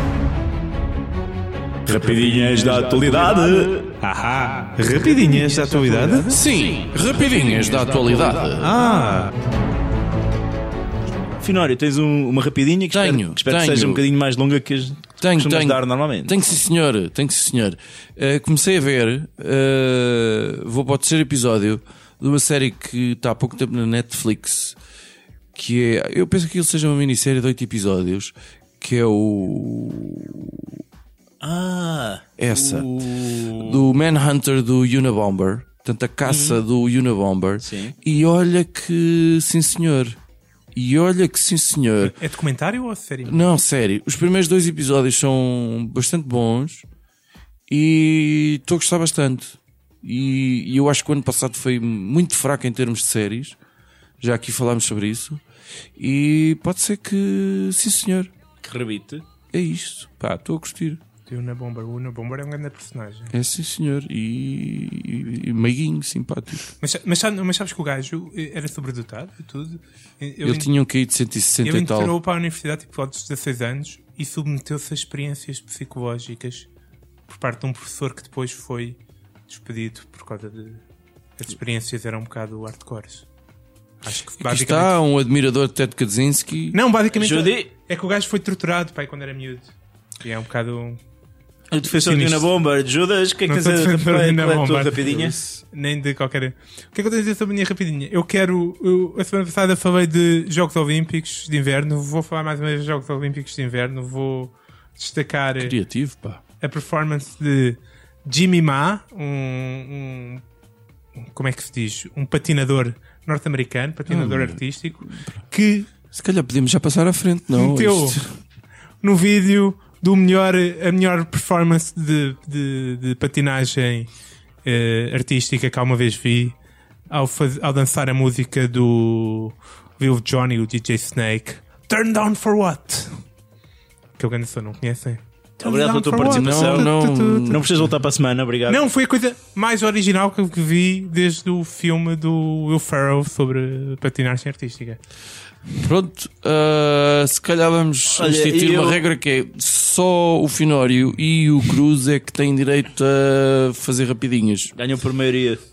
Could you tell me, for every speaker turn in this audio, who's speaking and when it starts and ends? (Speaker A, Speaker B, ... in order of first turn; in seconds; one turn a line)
Speaker A: 1.9-3.9
Speaker B: 2.0-3.0
Speaker B: 4.0-6.3
Speaker A: 4.9-6.4
Speaker C: 6.3-8.8
Speaker B: 8.6-9.3
Speaker A: 11.4-16.3
Speaker C: 12.9-14.0
Speaker C: 15.2-24.8
Speaker C: 25.5-30.8
Speaker A: 31.4-32.3
Speaker C: 32.4-40.2
Speaker B: 32.6-33.8
Speaker A: 36.2-36.6
Speaker A: 37.6-38.0
Speaker C: 40.7-42.2
Speaker B: 42.0-43.4
Speaker C: 43.3-46.9
Speaker C: 47.7-53.6
Speaker C: 54.2-55.4
Speaker C: 56.0-58.3
Speaker A: 58.6-59.2
Speaker C: 59.5-61.0
Speaker B: 61.3-63.3
Speaker C: 63.3-66.7
Speaker B: 66.8-70.7
Speaker C: 70.4-72.1
Speaker B: 71.6-76.7
Speaker B: 77.3-79.0
Speaker B: 79.5-80.8
Speaker B: 81.4-83.2
Speaker B: 84.0-84.9
Speaker C: 84.4-86.8
Speaker B: 86.7-89.7
Speaker A: 87.1-87.7
Speaker B: 90.2-91.0
Speaker A: 91.7-95.3
Speaker B: 92.0-92.5
Speaker B: 93.5-105.8
Speaker C: 95.1-95.6
Speaker C: 105.6-106.4
Speaker B: 106.6-110.4
Speaker B: 111.3-115.9
Speaker C: 114.1-115.4
Speaker C: 116.1-118.2
Speaker B: 117.5-118.2
Speaker B: 119.0-124.1
Speaker B: 124.7-126.5
Speaker B: 127.1-133.2
Speaker B: 134.2-137.6
Speaker A: 135.6-136.9
Speaker C: 136.2-137.7
Speaker A: 137.4-138.8
Speaker B: 138.7-145.0
Speaker C: 145.8-154.7
Speaker A: 148.1-149.0
Speaker A: 154.8-155.6